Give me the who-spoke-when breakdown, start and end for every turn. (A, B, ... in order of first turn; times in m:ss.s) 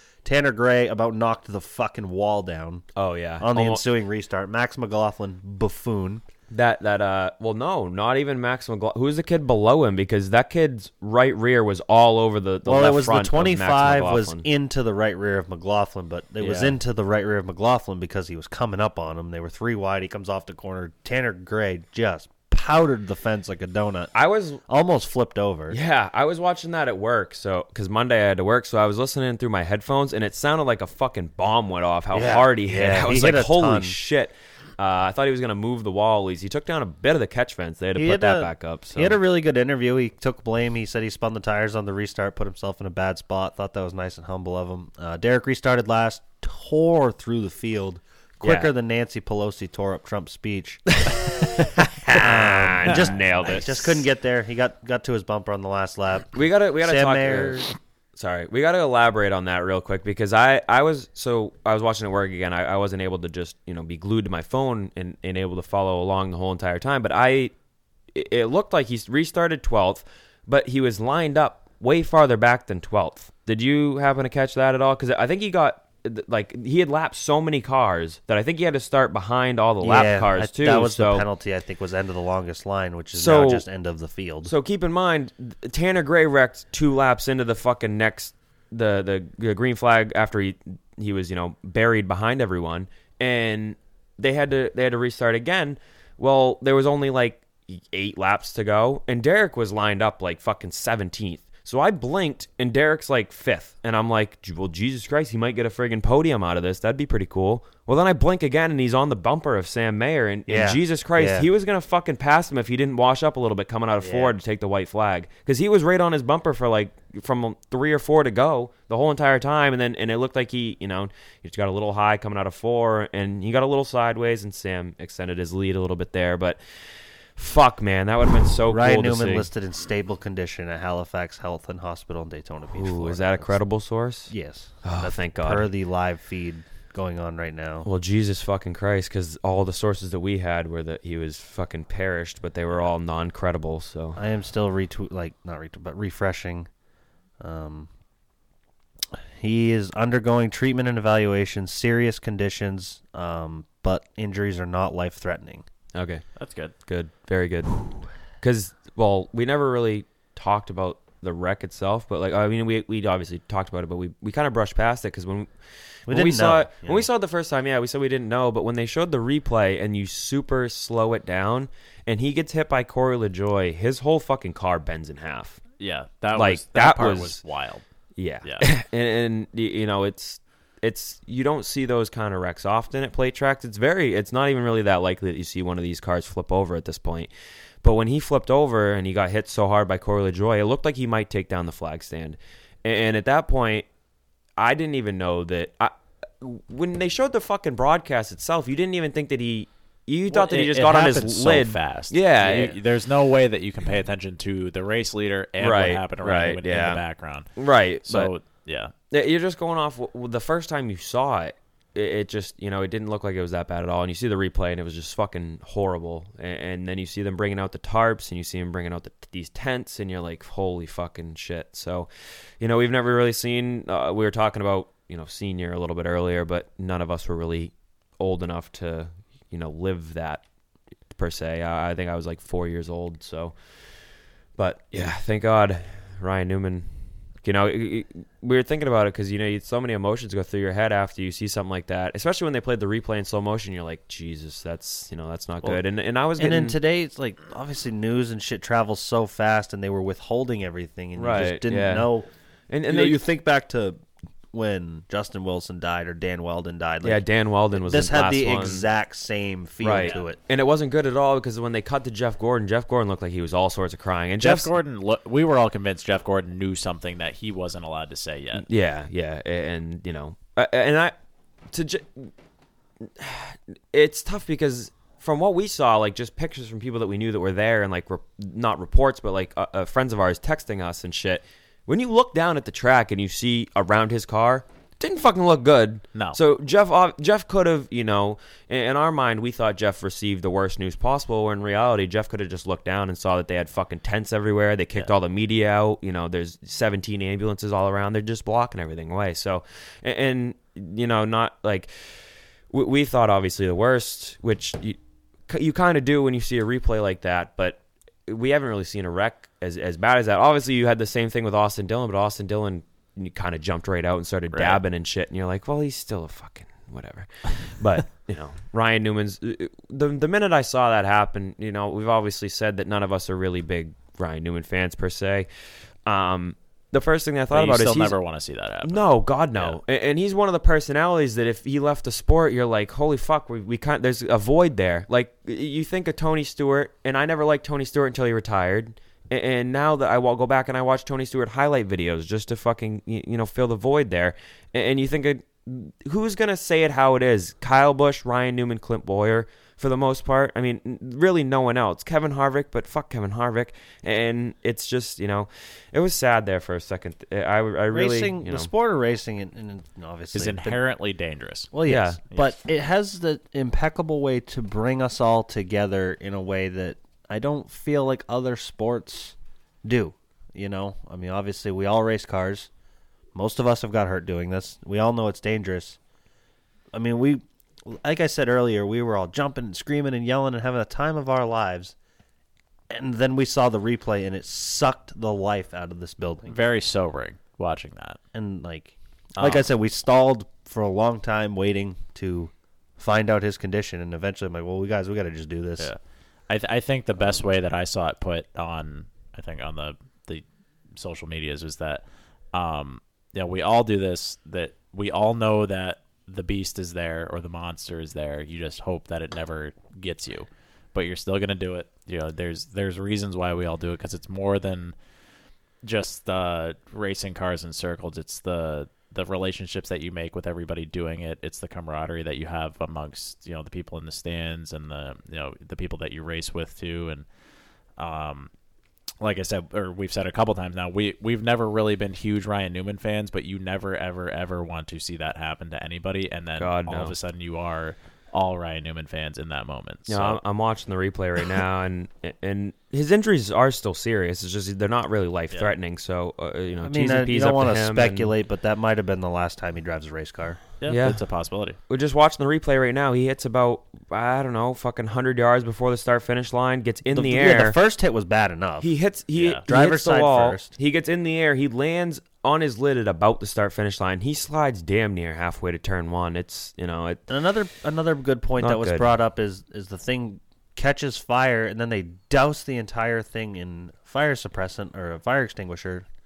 0:00.2-0:02.9 A
0:03.0-0:03.9 B
0:03.4-0:06.2 A
0:06.5-0:14.5 B
0:12.6-0:24.1 A
0:16.4-0:16.7 C
0:24.1-0:24.6 B
0:24.7-0:25.8 A
0:25.7-0:39.2 B
0:32.1-0:34.0 A
0:38.0-0:51.0 A
0:48.4-0:48.7 B
0:51.1-0:54.0 B
0:52.1-0:57.7 A
0:52.9-0:53.6 C
0:56.3-1:07.5 B
1:08.1-1:21.3 B
1:19.8-1:24.5 A
1:23.2-1:23.7 B
1:24.5-2:06.6 B
1:50.5-1:51.5 A
1:54.0-1:54.3 A
2:07.4-2:09.5 B
2:08.7-2:13.6 A
2:12.7-2:15.7 B
2:14.3-2:17.9 A
2:17.8-2:24.2 B
2:24.2-2:26.7 A
2:27.4-2:27.9 A
2:29.4-2:35.7 A
2:36.0-2:36.2 B
2:36.4-2:36.8 C
2:36.9-2:37.8 B
2:38.4-2:45.5 B
2:46.1-2:47.1 A
2:46.1-2:55.6 B
2:55.8-2:57.8 C
2:56.3-2:57.4 B
2:58.2-3:07.3 B
3:07.8-3:13.9 B
3:14.6-3:22.8 B
3:20.3-3:28.9 C
3:25.6-3:27.0 B
3:27.6-3:28.3 B
3:29.1-3:42.1 B
3:42.6-3:50.4 B
3:51.1-3:53.6 B
3:54.6-3:56.9 B
3:57.4-4:06.8 B
4:06.4-4:12.3 A
4:11.2-4:12.1 B
4:12.7-4:13.2 B
4:12.9-4:14.0 A
4:14.5-4:20.4 A
4:17.0-4:18.9 B
4:19.8-4:24.7 B
4:24.4-4:28.7 C
4:28.6-4:31.1 B
4:31.7-4:32.3 B
4:33.0-5:01.9 B
4:46.1-4:46.4 C
5:02.7-5:25.5 B
5:14.5-5:14.8 C
5:26.1-5:28.2 B
5:27.5-5:29.8 C
5:28.8-5:58.7 B
5:57.9-6:00.8 A
6:00.3-6:01.7 C
6:01.7-6:12.7 A
6:01.8-6:02.2 B
6:13.3-6:16.0 A
6:16.9-6:22.0 A
6:22.9-6:26.6 A
6:26.5-6:28.2 C
6:28.3-6:35.9 A
6:29.4-6:29.6 C
6:36.5-6:40.4 C
6:41.0-6:55.0 C
6:55.8-7:07.2 C
7:08.0-7:08.5 C
7:09.2-7:20.4 C
7:16.6-7:17.2 B
7:20.1-7:28.3 B
7:26.8-7:30.6 A
7:30.8-7:31.8 C
7:30.9-7:31.2 B
7:31.9-7:37.8 B
7:37.1-7:38.9 A
7:38.8-7:47.2 B
7:39.4-7:39.6 C
7:39.7-7:40.7 A
7:47.3-7:56.1 A
7:48.6-7:49.1 B